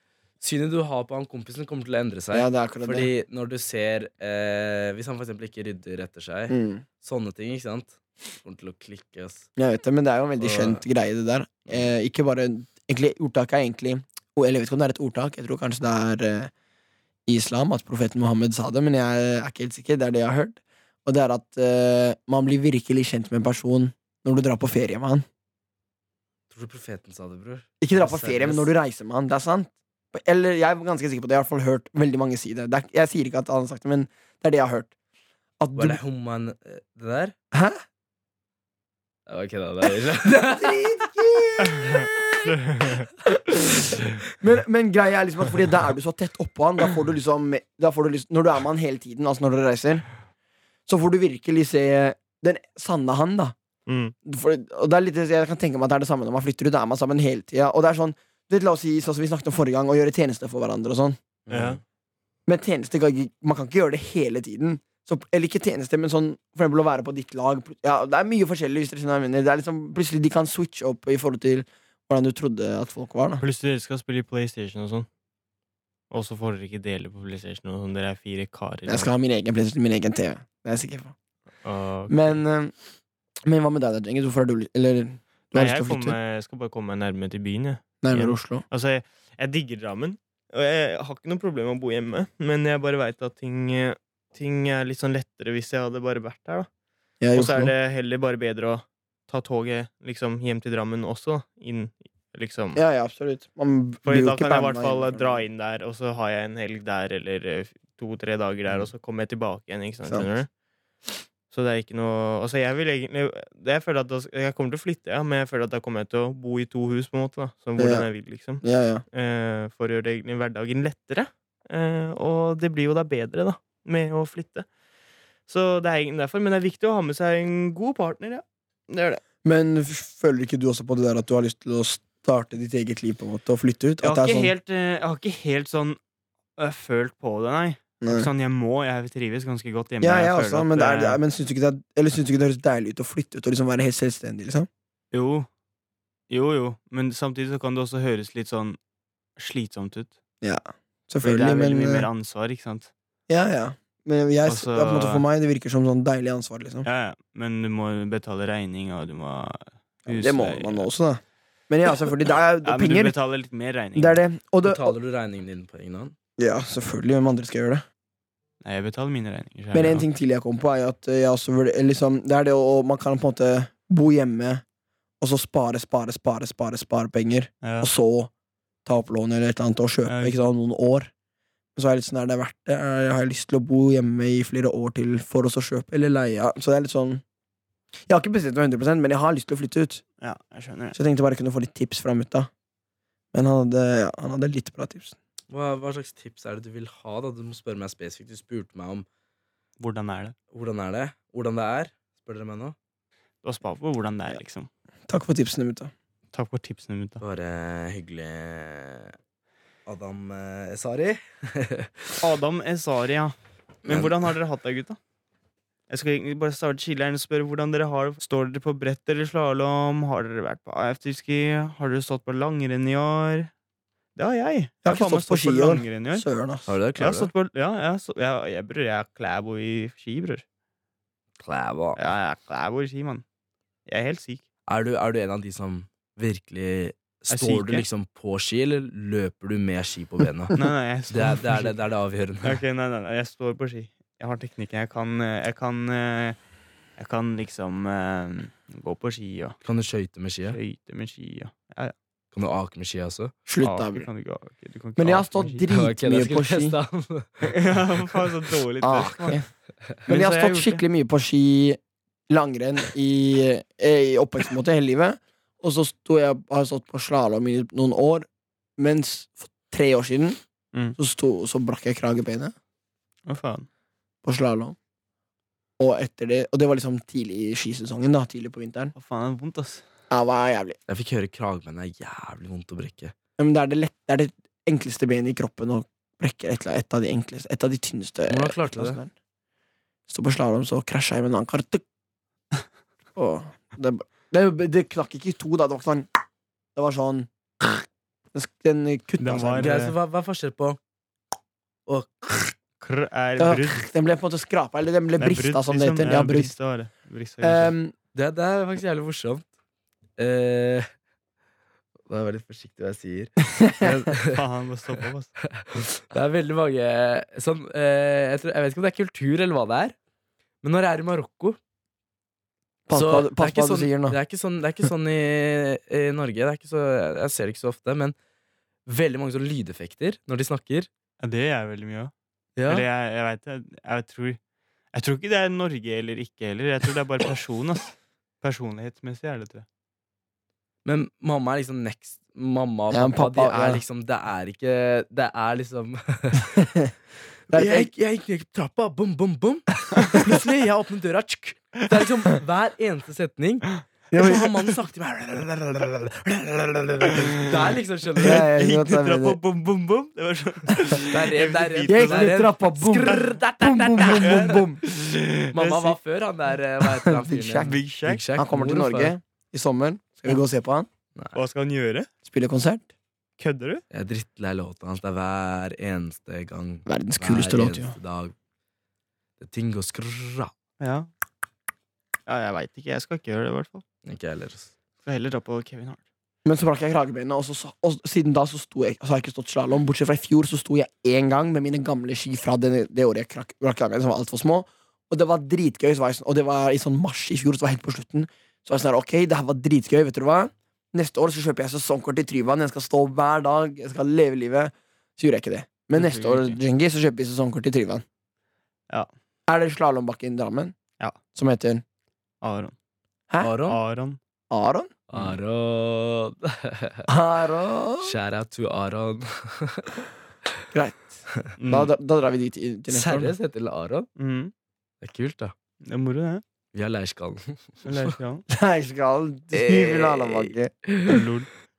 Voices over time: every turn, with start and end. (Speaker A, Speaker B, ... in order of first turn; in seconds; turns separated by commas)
Speaker A: 0.4-9.5, Speaker B: 2.3-3.1, Speaker B: 6.5-6.8, Speaker B: 9.6-16.5, Speaker A: 10.4-10.8, Speaker B: 17.3-25.2, Speaker A: 26.5-28.7, Speaker B: 27.8-34.9, Speaker B: 35.6-36.0, Speaker A: 35.8-37.3, Speaker B: 37.5-37.8, Speaker A: 39.3-40.9, Speaker B: 40.2-42.5, Speaker C: 41.7-43.1, Speaker B: 43.2-50.0, Speaker B: 50.9-53.5, Speaker C: 53.9-54.1, Speaker B: 54.2-61.2, Speaker A: 61.5-61.8, Speaker C: 61.5-61.8, Speaker B: 62.5-73.4, Speaker C: 73.4-75.1, Speaker C: 76.1-79.1, Speaker B: 78.8-81.1, Speaker C: 81.6-82.4, Speaker B: 82.1-82.7, Speaker B: 83.5-86.2, Speaker C: 85.5-96.7, Speaker B: 88.0-88.6, Speaker B: 97.2-97.7, Speaker C: 97.3-102.8, Speaker B: 102.7-105.4, Speaker C: 104.0-110.5, Speaker C: 111.5-124.7, Speaker B: 117.8-118.1, Speaker B: 118.6-119.0, Speaker C: 125.5-129.2, Speaker B: 129.4-134.5, Speaker C: 134.0-136.0, Speaker C: 136.6-141.2, Speaker B: 138.0-138.3, Speaker B: 140.0-144.7, Speaker C: 145.1-145.5, Speaker C: 146.3-148.8, Speaker C: 149.4-150.1, Speaker B: 150.4-152.1, Speaker C: 151.2-152.9, Speaker B: 153.3-156.8, Speaker C: 154.4-155.2, Speaker C: 156.8-160.9, Speaker B: 160.1-163.1, Speaker C: 162.6-164.2, Speaker B: 163.9-164.9, Speaker A: 164.6-166.1, Speaker B: 166.4-167.8, Speaker C: 168.6-170.0, Speaker B: 169.7-174.6, Speaker B: 175.2-178.3, Speaker C: 177.6-177.9, Speaker B: 178.8-181.1, Speaker C: 180.1-180.5, Speaker B: 181.7-187.2, Speaker B: 188.1-190.0, Speaker C: 190.2-191.0, Speaker B: 190.9-192.5, Speaker B: 193.3-195.2, Speaker A: 195.5-199.1, Speaker C: 199.8-200.3, Speaker A: 200.5-202.7, Speaker C: 203.4-204.7, Speaker B: 205.1-205.9, Speaker C: 206.3-207.2, Speaker A: 207.2-209.1, Speaker A: 209.8-212.2, Speaker C: 212.2-215.0, Speaker A: 213.8-214.3, Speaker C: 215.9-223.5, Speaker C: 224.2-226.2, Speaker B: 224.8-226.7, Speaker A: 226.7-227.3, Speaker C: 227.0-230.4, Speaker A: 231.4-232.0, Speaker C: 231.9-233.2, Speaker C: 233.8-234.4, Speaker A: 234.7-242.6, Speaker C: 237.3-237.8, Speaker C: 240.5-241.7, Speaker C: 242.4-246.4, Speaker C: 247.0-249.6, Speaker A: 249.6-250.6, Speaker C: 250.5-251.9, Speaker A: 252.3-253.3, Speaker B: 253.4-254.1, Speaker C: 253.6-255.7, Speaker B: 255.0-256.8, Speaker A: 255.7-257.8, Speaker C: 257.4-259.4, Speaker B: 258.8-259.4, Speaker C: 260.1-260.8, Speaker B: 260.1-270.4, Speaker B: 271.0-272.5, Speaker C: 273.3-273.7, Speaker B: 274.2-274.8, Speaker B: 275.8-278.9, Speaker C: 278.9-279.8, Speaker B: 280.1-280.8, Speaker A: 280.9-283.1, Speaker B: 283.4-289.1, Speaker A: 288.3-289.0, Speaker B: 290.1-291.8, Speaker B: 293.1-296.1, Speaker B: 296.8-299.7, Speaker C: 299.2-299.9, Speaker A: 299.5-300.8, Speaker A: 301.9-302.6, Speaker C: 302.8-303.9, Speaker B: 303.4-306.5, Speaker C: 305.2-307.7, Speaker B: 307.4-307.9, Speaker A: 308.1-309.4, Speaker A: 310.2-310.9, Speaker A: 312.1-314.4, Speaker B: 313.6-314.0, Speaker C: 314.2-315.3, Speaker A: 315.4-319.9, Speaker A: 320.6-321.6, Speaker B: 322.9-324.2, Speaker A: 322.9-328.1, Speaker A: 328.9-330.9, Speaker C: 331.2-332.1, Speaker A: 332.6-332.9, Speaker C: 332.7-334.4, Speaker C: 334.9-339.6, Speaker A: 340.8-346.6, Speaker B: 342.9-343.8, Speaker B: 346.6-346.9, Speaker A: 347.5-358.4, Speaker B: 347.5-347.9, Speaker B: 354.1-354.5, Speaker B: 358.2-359.4, Speaker C: 358.3-362.3, Speaker A: 361.1-364.6, Speaker B: 361.9-364.8, Speaker C: 364.2-366.0, Speaker A: 365.5-369.1, Speaker B: 366.9-367.8, Speaker C: 367.6-368.2, Speaker B: 368.4-370.9, Speaker C: 371.3-372.1, Speaker B: 372.2-372.9, Speaker C: 373.4-373.8, Speaker A: 373.9-378.3, Speaker B: 376.9-377.9, Speaker A: 379.4-380.5, Speaker C: 380.8-381.1, Speaker C: 382.3-383.8, Speaker A: 384.0-384.7, Speaker C: 385.0-386.0, Speaker B: 386.4-408.0, Speaker C: 405.9-406.6, Speaker B: 409.5-410.7, Speaker B: 411.3-411.8, Speaker C: 412.4-412.7, Speaker A: 413.4-413.8, Speaker C: 413.7-414.2, Speaker B: 414.5-414.9, Speaker A: 415.1-417.1, Speaker B: 417.1-418.1, Speaker A: 418.0-420.0, Speaker B: 420.7-423.3, Speaker C: 421.6-421.9, Speaker A: 422.9-424.1, Speaker C: 424.2-424.5, Speaker A: 425.0-425.5, Speaker C: 425.8-426.4, Speaker A: 426.7-428.1, Speaker C: 427.8-428.4, Speaker B: 428.5-430.7, Speaker A: 429.5-431.3, Speaker C: 431.1-431.5